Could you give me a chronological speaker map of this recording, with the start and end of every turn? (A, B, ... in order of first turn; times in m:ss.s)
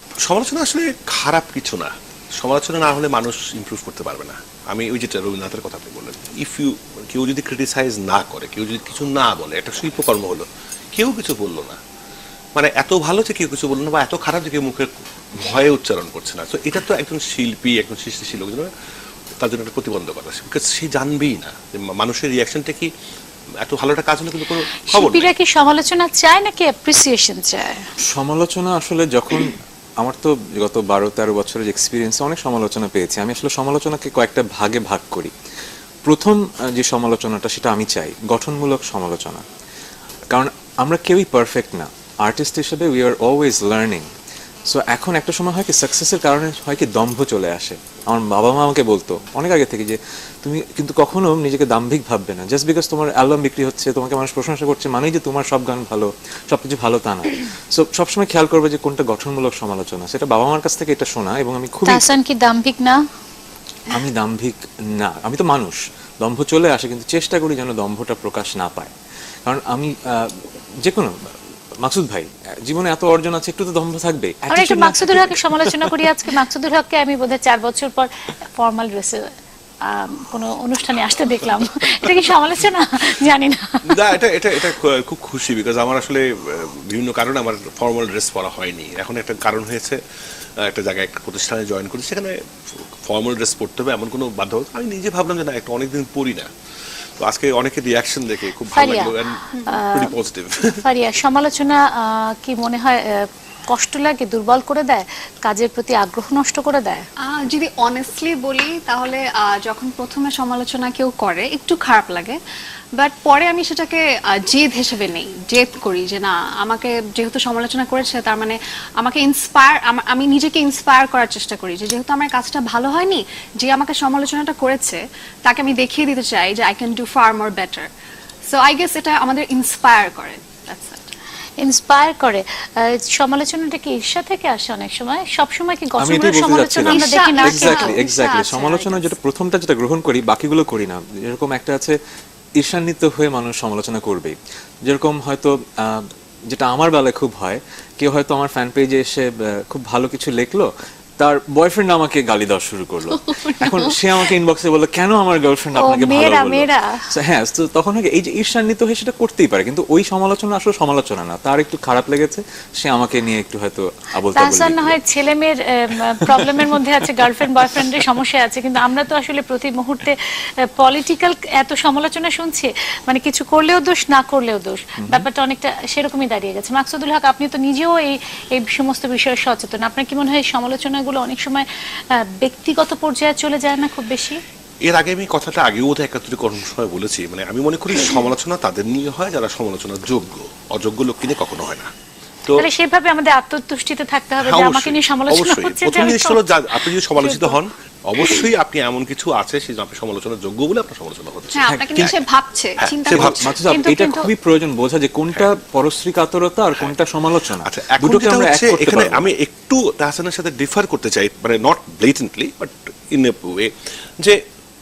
0:00.2-0:11.8 A
0:12.6-0:18.7 A
0:19.4-0:22.9 A
0:23.6-0:25.3 A
0:24.9-0:27.8 B
0:28.1-0:35.3 C
0:36.0-0:39.4 C
0:40.3-0:44.1 C
0:44.7-1:02.1 C
1:01.9-1:03.0 B
1:03.9-1:08.9 C
1:09.5-1:11.2 C
1:11.8-1:16.1 C
1:14.5-1:19.2 B
1:19.8-1:24.1 B
1:23.9-1:30.0 A
1:30.6-1:32.4 A
1:32.9-1:36.5 A
1:37.2-1:40.8 A
1:38.7-1:40.2 B
1:39.5-1:39.8 D
1:40.7-1:47.1 B
1:47.2-1:52.4 D
1:53.0-2:07.9 D
2:08.5-2:11.1 D
2:11.6-2:18.0 B
2:16.0-2:22.0 C
2:16.8-2:19.1 D
2:22.6-2:30.7 C
2:31.2-2:45.0 C
2:35.8-2:37.1 B
2:44.4-2:50.2 B
2:46.2-2:48.0 C
2:50.8-3:04.4 B
2:55.0-2:55.3 C
3:04.8-3:11.9 A
3:12.6-3:17.6 B
3:14.4-3:22.2 A
3:21.5-3:23.6 D
3:21.7-3:22.2 C
3:22.8-3:23.5 A
3:23.1-3:29.2 C
3:23.7-3:24.3 B
3:27.6-3:34.4 A